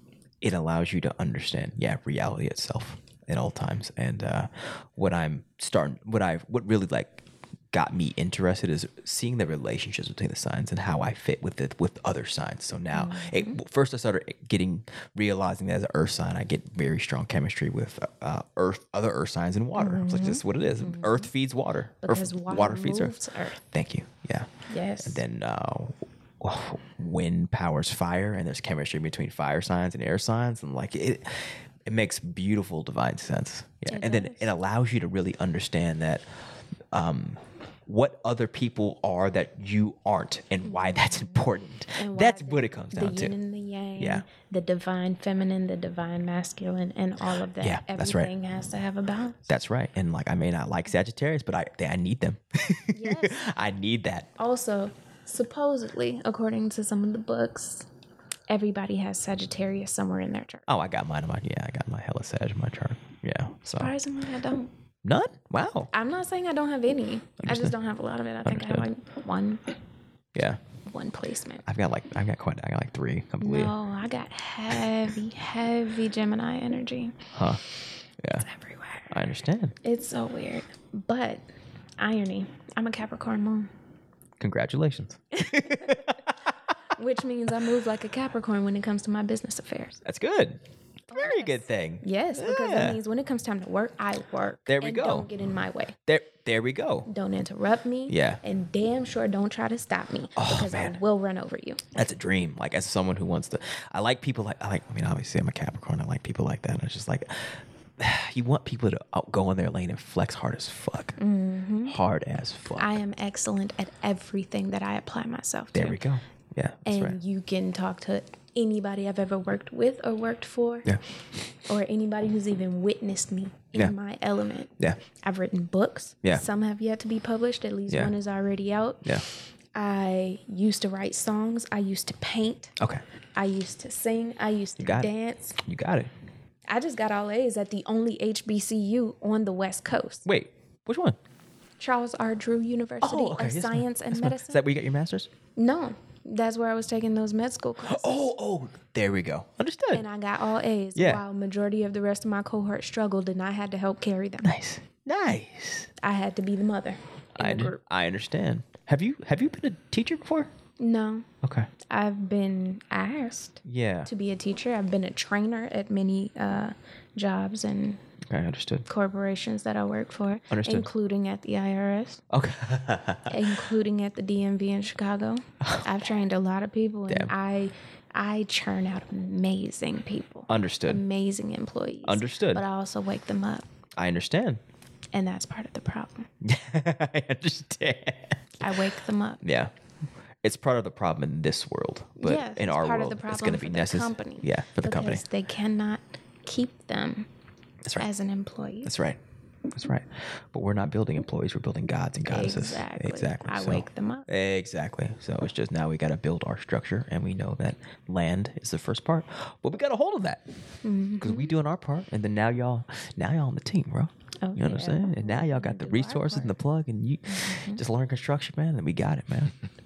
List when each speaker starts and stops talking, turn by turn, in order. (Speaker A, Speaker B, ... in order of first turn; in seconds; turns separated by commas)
Speaker A: 0.4-24.5, Speaker B: 12.9-13.6, Speaker B: 19.8-21.3, Speaker B: 22.0-23.6, Speaker B: 24.7-25.2, Speaker A: 25.0-36.2, Speaker B: 33.9-34.5, Speaker A: 36.9-43.3, Speaker B: 40.6-41.4, Speaker B: 42.0-49.5, Speaker A: 44.0-44.2, Speaker A: 47.6-48.3, Speaker A: 49.5-54.3, Speaker B: 52.9-53.4, Speaker B: 54.4-57.9, Speaker B: 58.5-60.7, Speaker A: 60.7-63.9, Speaker B: 63.8-64.7, Speaker A: 65.0-65.9, Speaker B: 65.9-69.6, Speaker A: 67.4-67.7, Speaker A: 68.5-68.9, Speaker A: 70.3-70.6, Speaker B: 70.8-71.7, Speaker A: 71.7-73.7, Speaker B: 73.4-77.3, Speaker A: 77.3-77.6, Speaker A: 78.2-78.5, Speaker B: 78.4-79.1, Speaker A: 79.1-79.8, Speaker B: 79.8-81.5, Speaker B: 82.0-83.7, Speaker A: 84.4-86.5, Speaker B: 85.4-86.0, Speaker B: 86.9-90.0, Speaker A: 90.0-90.6, Speaker B: 91.1-96.0, Speaker A: 91.1-93.0, Speaker A: 94.7-95.3, Speaker A: 96.1-97.1, Speaker B: 97.1-101.8, Speaker A: 98.1-98.4, Speaker A: 100.4-101.0, Speaker A: 101.9-111.2, Speaker B: 111.2-112.0, Speaker A: 111.8-113.0, Speaker B: 112.8-116.0, Speaker A: 115.7-117.2, Speaker B: 116.9-120.9, Speaker B: 121.7-129.2, Speaker A: 127.9-128.2, Speaker B: 129.8-132.7, Speaker B: 133.4-135.6, Speaker A: 134.8-136.1, Speaker B: 136.7-140.2, Speaker A: 140.2-141.2, Speaker B: 141.8-144.6, Speaker A: 143.0-145.3, Speaker B: 145.6-148.3, Speaker A: 147.8-150.1, Speaker B: 149.9-154.6, Speaker A: 150.9-151.2, Speaker A: 154.4-155.9, Speaker B: 156.0-157.8, Speaker A: 157.4-160.5, Speaker B: 160.8-161.3, Speaker A: 161.4-161.7, Speaker B: 161.9-168.0, Speaker A: 163.6-164.1, Speaker A: 168.2-168.9, Speaker B: 168.9-172.2, Speaker A: 170.5-170.9, Speaker A: 172.3-173.5, Speaker B: 173.3-183.7, Speaker A: 175.6-176.2, Speaker A: 177.1-177.3, Speaker A: 180.5-181.0, Speaker A: 182.1-182.6, Speaker A: 184.0-184.6, Speaker B: 185.1-186.3, Speaker A: 186.4-188.4, Speaker B: 188.6-189.4, Speaker A: 189.4-189.7, Speaker A: 190.4-195.2, Speaker B: 192.2-197.3, Speaker B: 198.0-198.9, Speaker A: 198.8-199.2, Speaker A: 199.7-210.4, Speaker B: 202.3-204.3, Speaker B: 210.8-211.6, Speaker A: 211.2-219.6, Speaker B: 214.4-216.6, Speaker B: 217.3-217.8